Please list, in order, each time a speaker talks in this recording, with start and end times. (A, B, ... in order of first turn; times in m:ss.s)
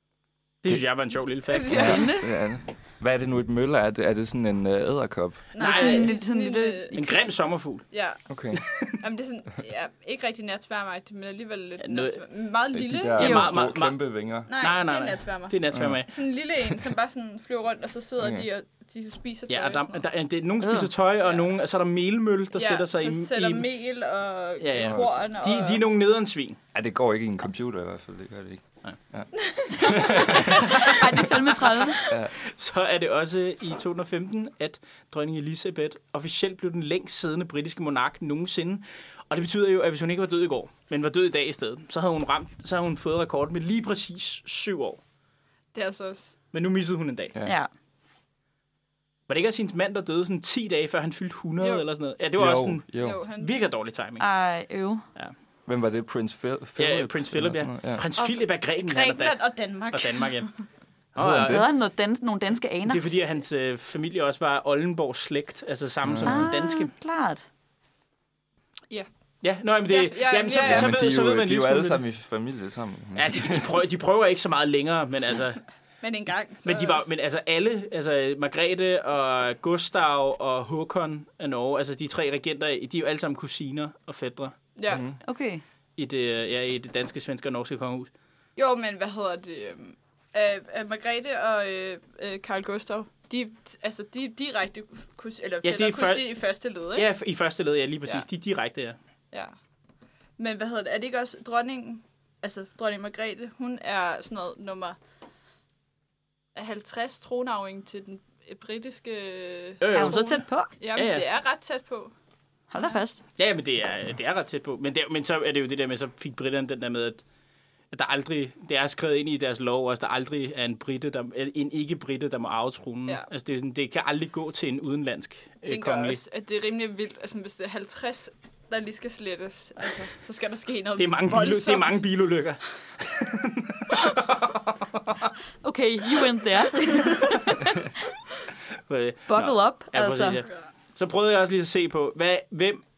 0:00.6-0:02.0 A
0:01.5-0:02.2 B
0:01.7-0:02.3 C
0:01.7-0:05.5 D
0:05.5-0:07.0 B
0:05.6-0:07.2 C
0:05.6-0:06.1 A
0:06.9-0:07.9 A
0:07.9-0:08.2 B
0:08.3-0:08.6 D
0:08.5-0:09.0 A
0:08.9-0:13.6 B
0:11.8-0:12.2 A
0:12.7-0:14.5 D
0:13.2-0:16.1 A
0:13.2-0:13.6 C
0:14.5-0:20.0 B
0:15.7-0:16.0 D
0:18.2-0:18.5 D
0:19.5-0:23.7 A
0:20.6-0:20.9 C
0:22.6-0:25.8 B
0:24.6-0:26.6 A
0:24.8-0:25.2 D
0:26.7-0:30.8 D
0:29.4-0:31.0 B
0:29.8-0:32.1 C
0:30.3-0:31.0 A
0:32.4-0:45.0 A
0:45.7-0:46.4 B
0:46.5-0:47.4 A
0:47.4-0:47.7 C
0:49.3-0:54.3 A
0:51.6-0:51.8 B
0:52.4-0:53.2 D
0:52.9-0:53.6 B
0:54.2-0:55.1 C
0:55.7-0:58.0 D
0:56.8-1:00.5 A
0:58.2-1:00.6 B
1:01.1-1:01.6 A
1:01.2-1:01.7 D
1:01.4-1:03.0 C
1:02.9-1:06.9 A
1:06.0-1:06.5 D
1:06.3-1:07.4 C
1:09.4-1:12.0 A
1:09.8-1:11.0 B
1:10.6-1:13.7 D
1:13.2-1:15.6 A
1:16.0-1:17.0 B
1:16.6-1:24.6 A
1:24.8-1:25.1 B
1:24.9-1:25.2 D
1:25.2-1:25.6 C
1:26.0-1:28.1 A
1:28.6-1:37.1 B
1:35.6-1:36.4 A
1:36.9-1:39.0 A
1:40.4-1:45.0 B
1:46.6-1:52.1 B
1:49.8-1:51.2 A
1:49.9-1:50.7 C
1:52.7-1:53.2 C
1:53.4-1:57.2 A
1:57.9-2:06.2 A
2:05.6-2:12.0 B
2:11.0-2:15.3 A
2:15.6-2:17.9 C
2:18.9-2:22.8 A
2:19.3-2:20.4 C